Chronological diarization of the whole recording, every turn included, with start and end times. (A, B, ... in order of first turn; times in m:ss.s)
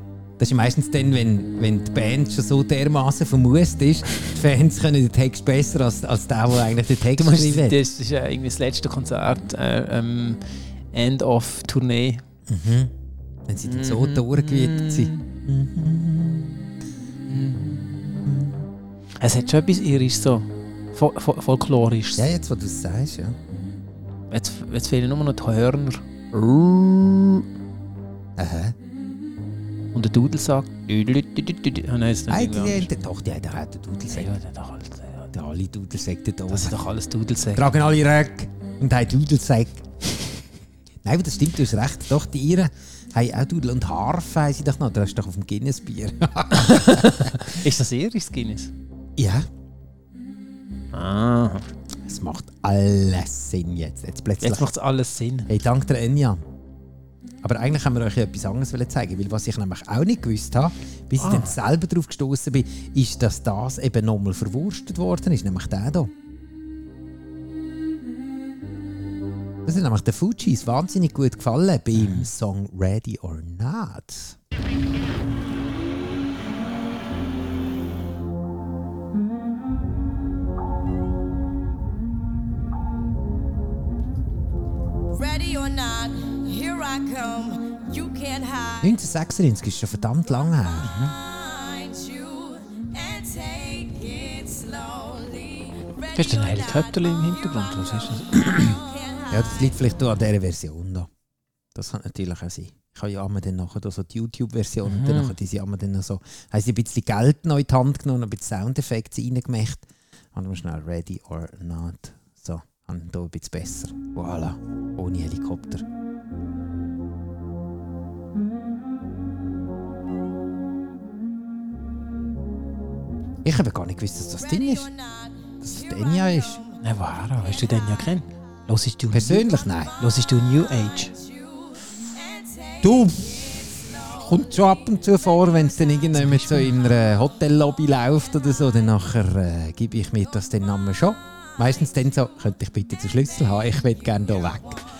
0:00.4-0:07.8 A
0:07.2-0:10.4 B
0:10.9-0:12.2 B
0:12.5-0:12.9 A
0:13.5-0:16.6 A
0:13.6-0:15.3 B
0:17.3-0:17.9 B
0:18.2-0:18.6 A
0:19.2-0:22.2 B
0:22.2-0:23.4 A
0:24.3-0:27.4 B
0:28.4-0:28.7 A
0:29.9-0:32.9 B
0:32.3-0:34.3 A
0:34.1-0:35.3 B
0:35.3-0:36.8 A
0:36.5-0:37.6 B
0:37.5-0:39.8 A
0:41.0-0:47.6 A
0:46.5-0:48.7 B
0:49.2-0:49.5 A
0:50.9-0:51.6 B
0:52.0-0:54.7 A
0:54.4-0:55.5 B
0:55.5-0:56.4 A
0:57.4-1:06.1 A
1:01.2-1:01.5 B
1:09.6-1:14.4 A
1:25.1-1:28.9 C
1:28.8-1:30.9 A
1:30.8-1:31.1 B
1:31.0-1:39.5 C
1:36.1-1:38.6 B
1:39.3-1:41.1 A
1:41.7-1:55.8 A
1:44.9-1:45.3 B
2:03.4-2:04.9 A
2:04.4-2:06.7 C
2:05.6-2:06.6 A
2:06.8-2:09.5 B
2:09.1-2:09.9 A
2:10.0-2:11.1 B
2:11.1-2:14.3 C
2:12.8-2:13.5 A
2:14.1-2:24.8 A
2:16.1-2:16.7 B